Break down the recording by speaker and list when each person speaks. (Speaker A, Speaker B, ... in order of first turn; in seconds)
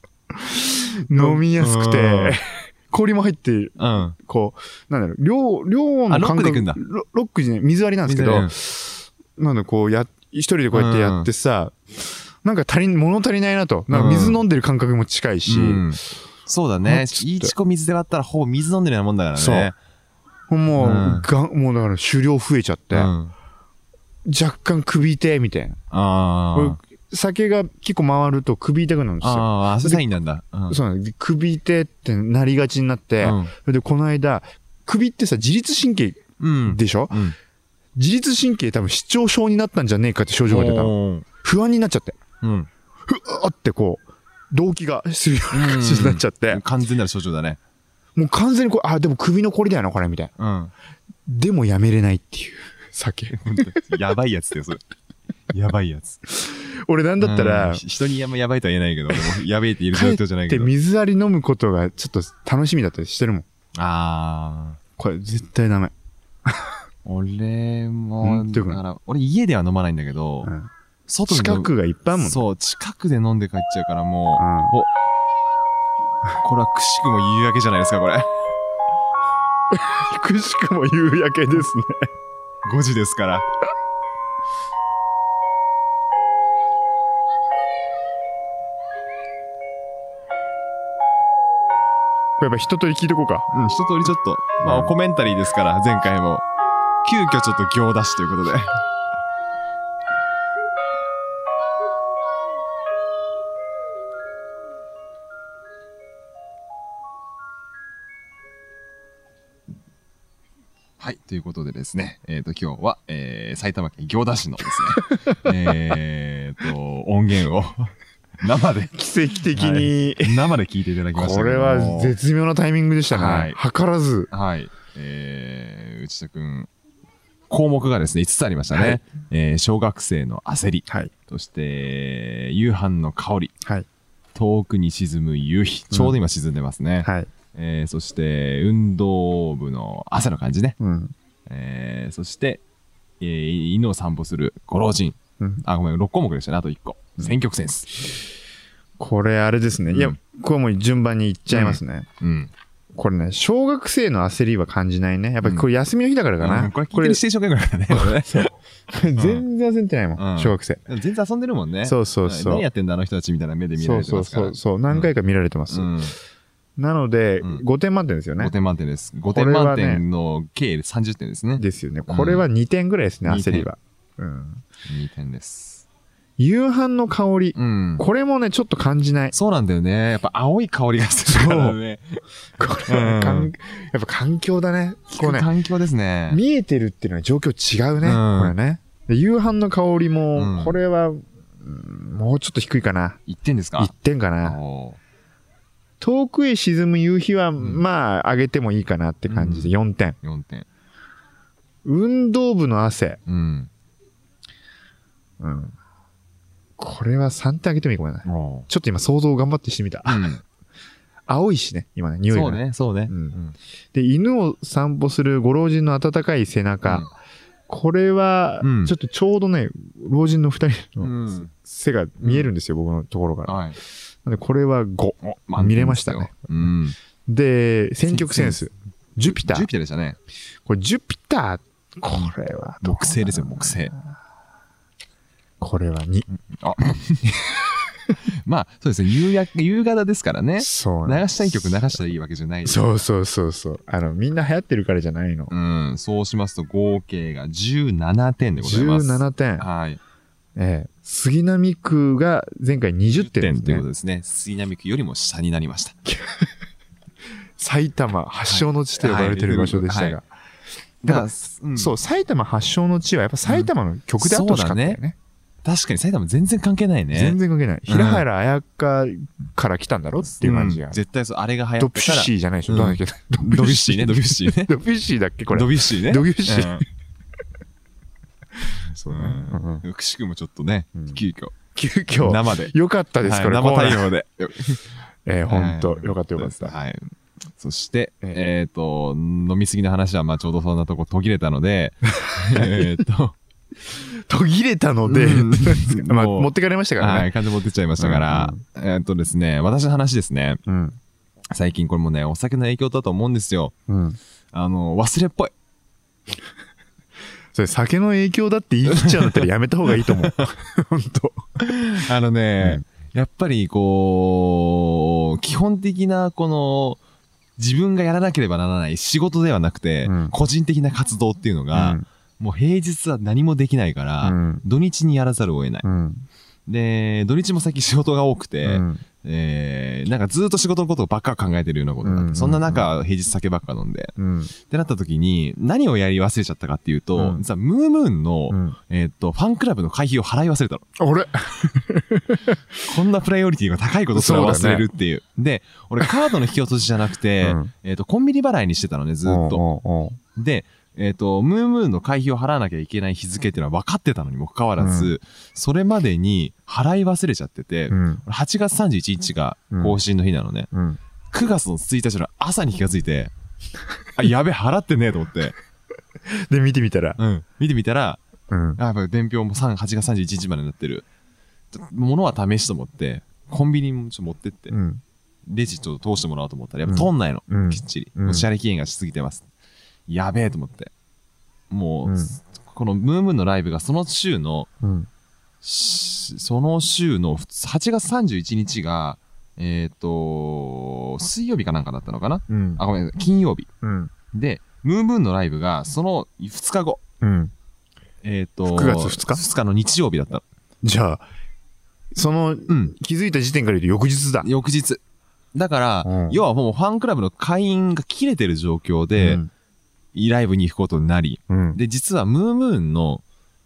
Speaker A: 0.4-15.9, 16.9-17.5, 19.4-19.7, 20.5-23.1, 24.2-25.8, 26.5-30.0, 30.7-37.2, 38.0-42.2, 43.1-46.6, 48.1-50.3, 51.2-53.7, 56.3-57.8, 59.9-63.5, 65.0-65.9, 66.5-66.7, 68.2-68.8, 70.4-70.7, 71.3-72.4, 74.4-74.7, 79.7-82.1, 92.4-93.5, 94.6-94.9, 118.9-120.5, 121.1-124.3, 128.7-129.0, 137.0-137.3, 140.8-141.1, 145.4-145.6, 149.0-152.1, 152.9-157.2, 157.9-160.8, 161.8-162.7, 163.8-165.9, 166.8-168.5, 169.3-170.0, 171.6-174.6, 176.4-179.3, 181.2-181.8, 182.6-185.5, 186.3-193.2, 193.8-194.6, 196.0-200.2, 201.8-203.2, 205.4-205.8, 206.8-210.3, 211.3-213.4, 213.9-217.1, 217.7-223.6, 224.2-226.4, 227.2-229.7, 230.7-234.0, 235.6-236.3, 237.3-237.8, 240.6-241.9, 242.6-245.5, 248.6-249.7, 250.6-253.8, 256.1-256.5, 257.6-260.3, 261.0-265.1, 267.1-271.0, 271.8-276.8, 278.8-279.8, 280.9-281.2, 281.7-284.1, 285.2-286.8, 292.2-292.9, 293.8-297.3, 298.0-298.6, 300.6-301.0, 303.9-304.2, 307.5-311.5, 320.1-320.3, 321.7-322.0, 324.2-324.6, 325.8-326.2, 328.6-329.0, 332.0-332.9, 334.2-334.5, 337.2-337.4, 338.5-338.8, 341.0-342.6, 344.1-344.9, 347.4-347.7, 349.2-350.2, 354.8-355.1, 357.9-358.2, 359.7-360.0, 360.7-361.0, 366.2-367.2, 368.5-368.8, 374.7-375.0, 376.9-378.5, 382.1-382.3, 384.8-385.1, 392.5-392.8, 393.8-394.1, 397.2-397.5, 398.7-399.4, 400.8-401.2, 402.1-404.5, 406.0-406.4, 409.2-409.5, 411.5-411.8
Speaker B: 0.7-2.4, 3.8-4.2, 6.1-6.8, 8.1-8.5, 10.7-11.3, 13.9-14.4, 15.5-19.8, 20.8-21.3, 22.9-23.3, 25.9-26.8, 29.2-30.8, 33.2-33.5, 36.4-37.4, 40.5-41.2, 42.4-42.7, 45.5-47.6, 50.4-50.7, 53.3-54.8, 55.5-56.2, 57.2-60.7, 63.8-64.8, 67.0-70.5, 71.1-74.9, 76.4-78.3, 82.6-83.5, 93.5-96.5, 97.0-98.8, 111.0-118.9, 119.5-122.1, 123.1-123.6, 124.3-126.7, 127.5-133.5, 134.3-140.8, 141.5-142.6, 143.2-148.2, 149.9-150.2, 151.5-152.5, 156.4-158.5, 159.2-159.4, 160.2-165.1, 165.7-166.2, 168.4-172.4, 173.2-173.7, 174.9-175.8, 177.6-178.1, 179.3-182.2, 182.9-183.5, 185.1-186.4, 188.0-188.6, 190.3-190.8, 193.2-193.9, 194.4-195.0, 197.6-197.8, 199.3-200.7, 203.2-203.7, 208.2-208.7, 210.1-210.4, 212.3-213.6, 216.8-217.1, 218.6-218.9, 221.0-221.5, 222.2-222.5, 223.5-223.8, 225.2-227.0, 228.0-228.6, 229.3-230.2, 232.8-233.9, 236.5-237.3, 238.4-242.9, 245.5-250.0, 253.1-256.0, 258.5-260.2, 261.0-261.9, 263.5-265.0, 265.6-268.2, 270.3-274.7, 275.5-276.8, 279.1-281.6, 282.2-284.8, 285.5-293.4, 295.1-300.6, 301.5-303.8, 304.5-305.5, 308.9-310.5, 311.6-317.0, 317.6-325.9, 326.7-340.9, 342.8-349.6, 350.3-360.7, 361.3-363.3, 364.2-365.6, 367.2-368.2, 368.8-371.1, 371.7-374.8, 375.5-379.4, 380.1-380.9, 381.7-384.7, 385.6-393.7, 394.3-397.0, 398.2-400.4, 402.7-402.9, 404.4-405.0, 405.5-409.4, 410.1-413.2